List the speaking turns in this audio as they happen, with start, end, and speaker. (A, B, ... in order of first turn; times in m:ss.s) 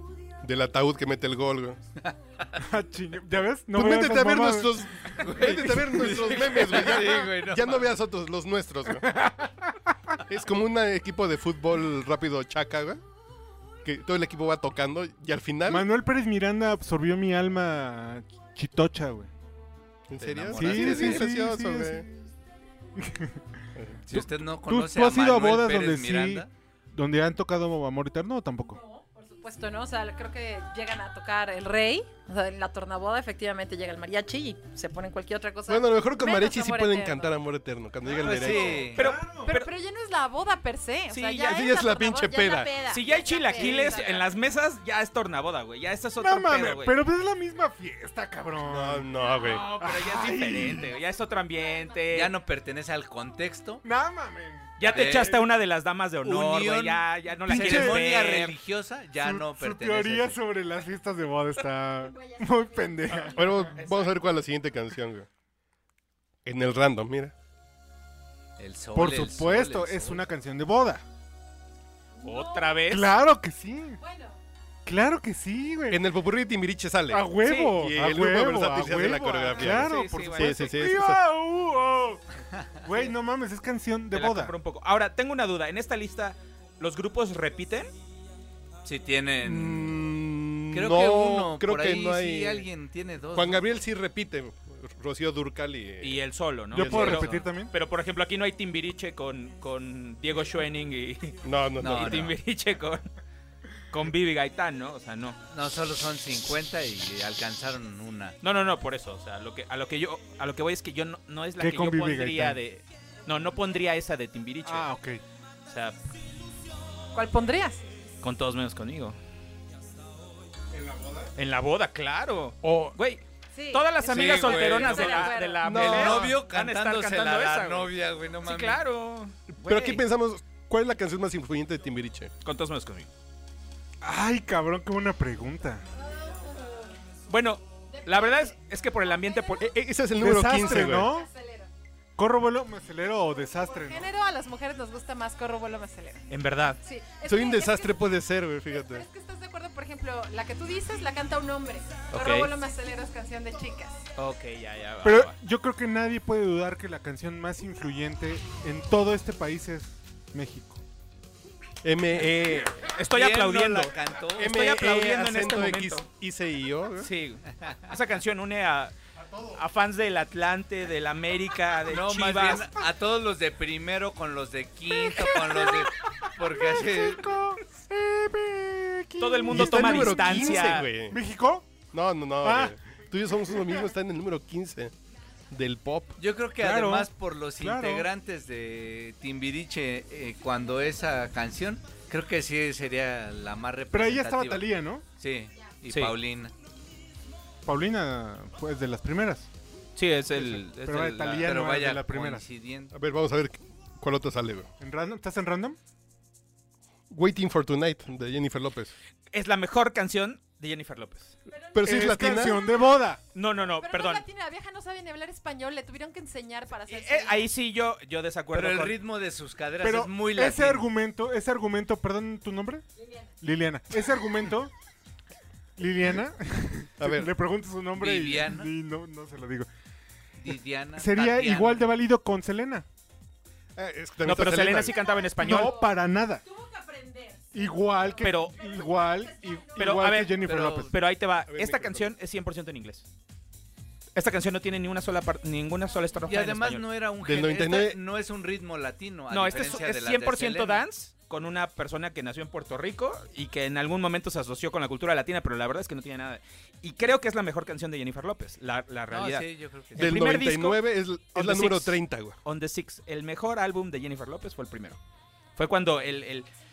0:00.4-0:01.8 A
0:02.6-0:04.8 B
0:03.7-0:09.1 A
0:05.2-0:07.8 C
0:05.4-0:06.0 B
0:09.0-0:09.8 B
0:10.2-0:13.0 A
0:13.8-0:15.8 A
0:15.7-0:19.3 B
0:20.1-0:22.0 A
0:20.2-0:21.2 C
0:20.5-0:22.2 B
0:23.0-0:23.4 B
0:23.7-0:24.0 A
0:24.1-0:26.5 C
0:24.1-0:28.8 B
0:28.7-0:37.3 D
0:35.7-0:38.9 A
0:38.0-0:39.5 B
0:38.1-0:39.0 C
0:38.4-0:38.8 D
0:39.0-0:39.7 E
0:39.4-0:44.3 D
0:41.1-0:41.6 E
0:41.4-0:42.8 A
0:42.9-0:47.0 E
0:46.2-0:50.9 B
0:48.7-0:49.7 A
0:49.3-0:52.3 E
0:52.1-0:53.8 C
0:53.8-0:55.4 B
0:54.8-0:58.6 E
0:54.9-0:55.4 C
0:56.2-1:00.4 C
0:57.5-0:58.0 B
0:59.2-1:03.6 B
1:02.1-1:03.4 D
1:03.3-1:05.3 A
1:03.8-1:04.1 E
1:06.4-1:07.3 A
1:08.6-1:10.2 C
1:08.9-1:11.0 B
1:12.2-1:12.8 D
1:12.2-1:13.1 E
1:12.9-1:14.0 B
1:14.0-1:14.4 D
1:14.8-1:16.0 B
1:15.9-1:21.2 A
1:17.1-1:22.2 B
1:17.4-1:17.8 E
1:19.4-1:20.8 E
1:22.8-1:24.5 B
1:24.1-1:27.9 E
1:28.8-1:30.0 C
1:29.4-1:32.7 A
1:30.7-1:33.6 C
1:33.3-1:37.3 A
1:36.0-1:43.1 E
1:36.7-1:37.7 B
1:41.4-1:42.3 A
1:41.8-1:42.3 C
1:43.9-1:45.4 E
1:45.5-1:48.4 C
1:48.4-1:54.9 E
1:51.6-1:52.6 B
1:54.6-1:55.2 B
1:55.6-1:56.0 E
1:57.1-1:57.8 D
1:58.2-1:59.2 E
2:00.7-2:01.3 B
2:01.4-2:10.0 E
2:02.6-2:03.0 A
2:03.5-2:05.8 D
2:04.1-2:08.8 C
2:05.6-2:06.4 A
2:09.5-2:12.3 A
2:12.4-2:13.1 E
2:14.0-2:15.8 B
2:16.0-2:16.9 D
2:17.3-2:19.7 E
2:17.9-2:18.5 D
2:19.1-2:19.6 D
2:19.6-2:21.1 A
2:20.2-2:21.3 B
2:20.5-2:21.7 D
2:22.2-2:24.0 B
2:23.6-2:26.2 D
2:26.3-2:26.8 E
2:26.8-2:28.1 D
2:27.2-2:29.0 A
2:28.7-2:34.0 D
2:32.1-2:32.5 E
2:34.2-2:35.3 E
2:35.0-2:40.8 B
2:41.8-2:42.9 A
2:43.0-2:46.0 E
2:43.1-2:44.5 C
2:44.4-2:47.1 A
2:47.0-2:48.9 E
2:49.5-2:52.7 E
2:51.9-2:57.4 C
2:55.0-3:01.7 B
2:59.2-3:00.9 E
2:59.5-3:01.2 A
3:01.9-3:04.9 A
3:02.4-3:02.7 B
3:05.5-3:06.2 A
3:06.2-3:16.5 C
3:06.6-3:08.1 B
3:13.9-3:15.0 B
3:15.9-3:16.1 E
3:17.6-3:19.5 B
3:20.0-3:21.6 E
3:20.4-3:22.4 B
3:21.4-3:22.9 C
3:22.9-3:24.7 A
3:24.8-3:25.8 B
3:27.1-3:28.9 A
3:29.3-3:31.3 E
3:31.5-3:32.7 D
3:31.7-3:32.6 A
3:31.8-3:33.2 B
3:33.3-3:34.2 E
3:33.8-3:37.5 D
3:36.9-3:39.0 E
3:38.5-3:40.9 C
3:39.8-3:42.8 B
3:43.4-3:44.7 B
3:45.8-3:49.7 B
3:47.0-3:47.3 A
3:48.0-3:48.7 C
3:50.4-3:51.8 C
3:51.0-3:52.8 B
3:53.8-3:55.0 A
3:54.2-3:55.8 E
3:55.0-3:59.9 D
3:55.4-3:56.4 B
3:57.5-4:00.9 B
3:58.2-3:58.6 E
3:59.8-4:03.1 E
4:00.4-4:00.9 C
4:01.5-4:02.1 A
4:04.1-4:06.8 E
4:06.3-4:10.8 C
4:07.2-4:08.0 A
4:09.3-4:20.8 E
4:19.1-4:20.2 C
4:20.0-4:22.4 A
4:21.3-4:25.0 E
4:25.6-4:26.5 E